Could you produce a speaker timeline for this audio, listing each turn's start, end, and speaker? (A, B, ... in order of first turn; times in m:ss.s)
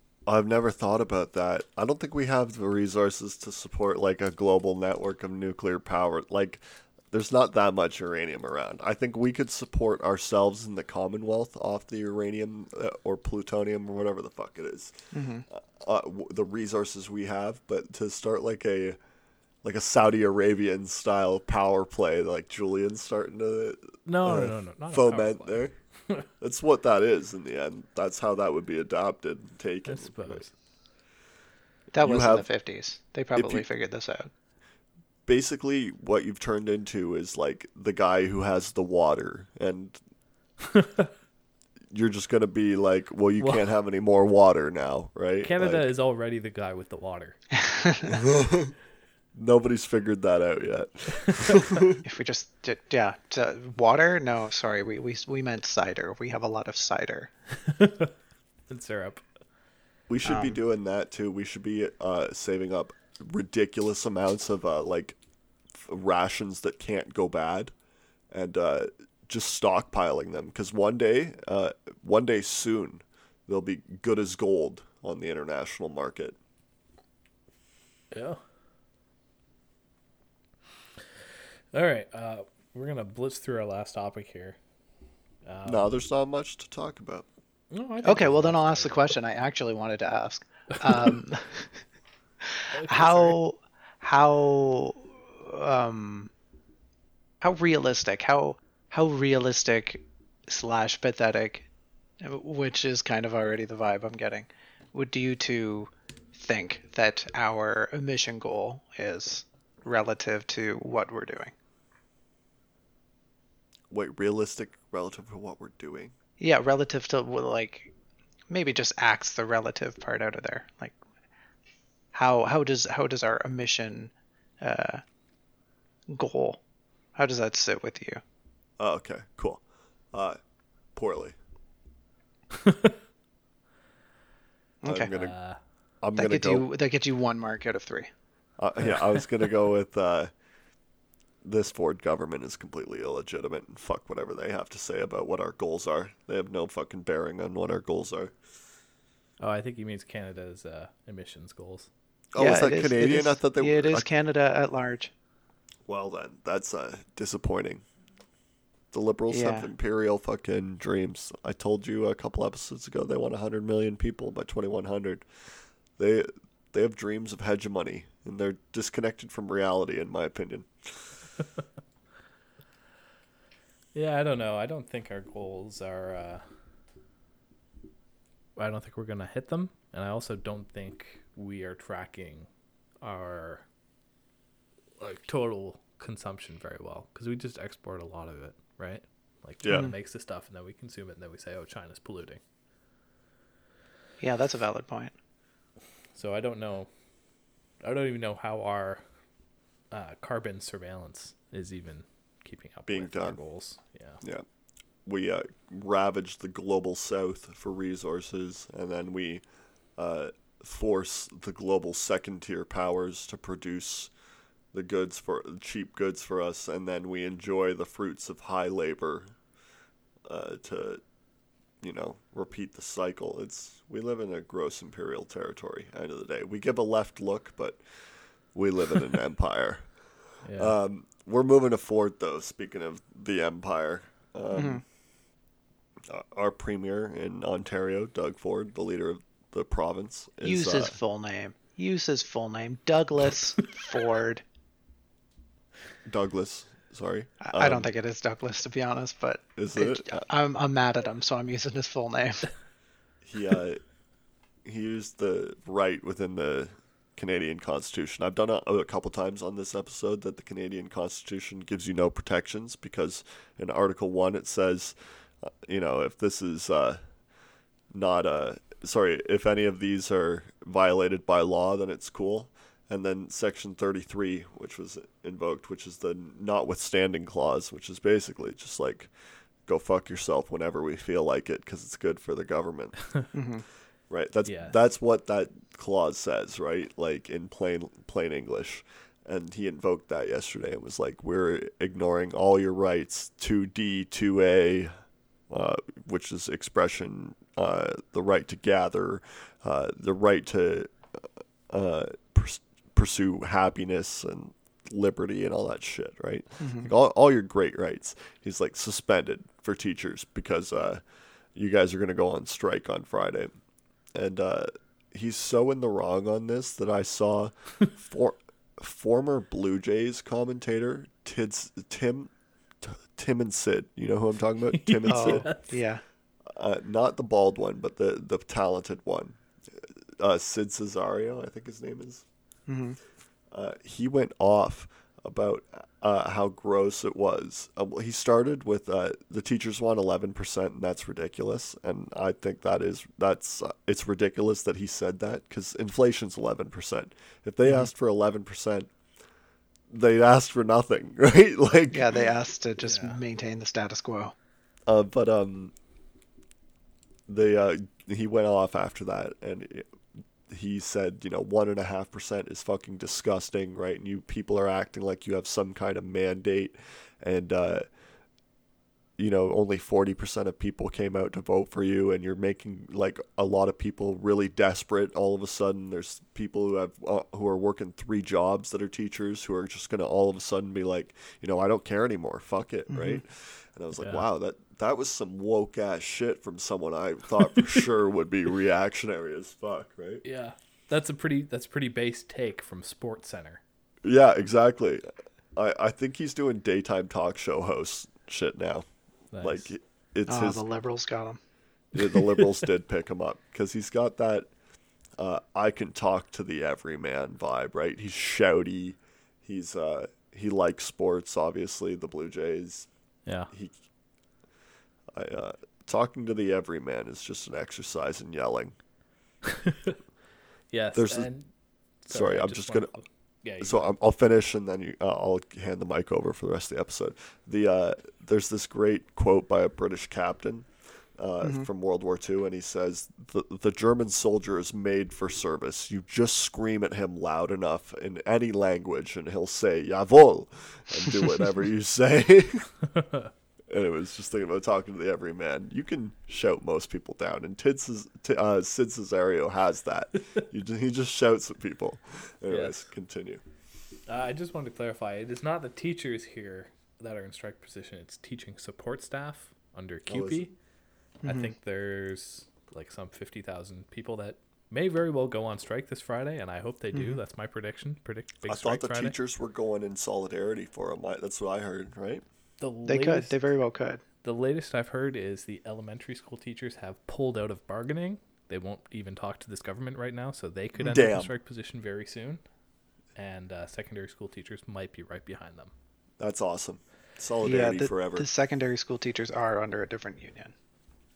0:00.3-0:19.0 A
0:15.1-0:15.5 B
0:19.6-0:25.7 A
0:24.1-0:26.3 C
0:26.4-0:30.4 A
0:29.9-0:30.5 C
0:31.9-0:34.3 B
0:32.0-0:32.5 A
0:33.4-0:33.7 A
0:35.3-0:40.0 A
0:40.6-0:41.1 C
0:41.9-0:45.9 A
0:43.4-0:43.7 C
0:45.4-0:47.4 C
0:47.6-0:48.2 B
0:48.1-0:48.7 A
0:49.4-0:52.0 A
0:51.3-0:51.6 C
0:52.0-0:57.3 B
0:57.6-0:58.1 C
0:58.7-0:59.2 C
1:00.1-1:05.2 A
1:00.2-1:00.6 B
1:05.7-1:07.7 A
1:08.3-1:16.4 A
1:18.1-1:18.4 C
1:21.7-1:24.6 C
1:25.5-1:25.9 C
1:25.6-1:27.3 A
1:27.7-1:29.1 C
1:28.0-1:31.7 B
1:32.4-1:36.3 B
1:32.7-1:33.4 C
1:37.4-1:41.7 B
1:42.2-1:51.6 B
1:53.9-1:56.1 A
1:56.4-1:57.9 B
1:58.5-2:01.0 B
2:02.1-2:05.0 B
2:06.1-2:06.6 B
2:07.2-2:08.2 B
2:08.8-2:09.6 A
2:10.1-2:10.4 A
2:11.0-2:11.4 A
2:12.6-2:12.9 C
2:14.8-2:15.1 B
2:14.8-2:15.4 A
2:15.1-2:15.6 C
2:16.0-2:16.7 A
2:16.2-2:18.1 B
2:18.6-2:20.3 A
2:18.8-2:19.2 C
2:21.4-2:28.3 A
2:29.4-2:31.9 C
2:32.3-2:34.1 A
2:32.4-2:35.1 B
2:35.9-2:37.8 A
2:38.9-2:45.2 A
2:39.3-2:39.7 B
2:46.0-2:51.2 A
2:53.9-2:56.4 C
2:58.6-3:02.5 C
3:03.0-3:03.6 C
3:05.0-3:12.4 C
3:09.6-3:09.9 A
3:09.7-3:10.0 B
3:14.2-3:15.2 B
3:16.2-3:16.9 C
3:17.8-3:19.0 C
3:19.9-3:24.2 C
3:22.9-3:23.4 A
3:25.0-3:29.4 A
3:30.0-3:34.1 A
3:34.7-3:39.3 A
3:40.3-3:41.0 A
3:41.8-3:47.8 A
3:48.5-3:49.8 A
3:50.4-3:50.8 C
3:50.6-3:54.8 A
3:54.5-3:54.8 B
3:56.1-4:01.0 A
4:00.4-4:04.4 B
4:06.1-4:07.9 A
4:07.4-4:12.5 B
4:09.6-4:10.3 A
4:13.2-4:13.8 A
4:14.6-4:27.0 A
4:27.9-4:39.1 A
4:39.7-4:43.0 A
4:43.3-4:43.6 B
4:44.1-4:54.9 A
4:44.5-4:44.8 C
4:55.5-5:11.0 A
5:06.6-5:06.9 B
5:11.5-5:13.5 A
5:14.2-5:25.5 A
5:24.7-5:25.7 C
5:25.1-5:26.0 B
5:26.5-5:32.2 A
5:32.7-5:33.0 B
5:33.5-5:48.9 A
5:49.9-5:52.2 A
5:51.9-5:54.4 B
5:52.8-5:53.2 C
5:54.9-5:55.7 A
5:57.3-5:59.9 A
6:00.5-6:07.8 A
6:09.2-6:30.2 A
6:22.9-6:23.2 B
6:24.0-6:24.2 C
6:30.2-6:33.6 C
6:34.0-6:35.0 A
6:35.6-6:38.9 A
6:39.3-6:39.7 C
6:39.4-6:40.6 A
6:40.3-6:41.4 B
6:41.9-6:44.5 A
6:42.0-6:42.5 C
6:45.2-6:52.9 A
6:53.5-6:53.8 A
6:55.1-6:58.8 A
6:59.5-7:00.0 C
7:00.7-7:01.5 C
7:01.0-7:01.3 A
7:02.0-7:03.9 C
7:02.1-7:02.9 A
7:03.6-7:22.7 A
7:11.4-7:11.7 B
7:23.0-7:23.3 C
7:23.7-7:33.4 A
7:32.5-7:32.9 C
7:34.1-7:40.5 C
7:40.1-7:40.5 A
7:41.2-7:41.5 B
7:41.2-7:49.2 C
7:46.9-7:47.2 B
7:48.5-7:52.2 A
7:52.6-7:53.4 C
7:52.8-7:54.0 B
7:54.2-8:02.4 C
8:00.8-8:01.3 A
8:03.2-8:05.7 C
8:06.2-8:08.3 A
8:07.4-8:10.5 B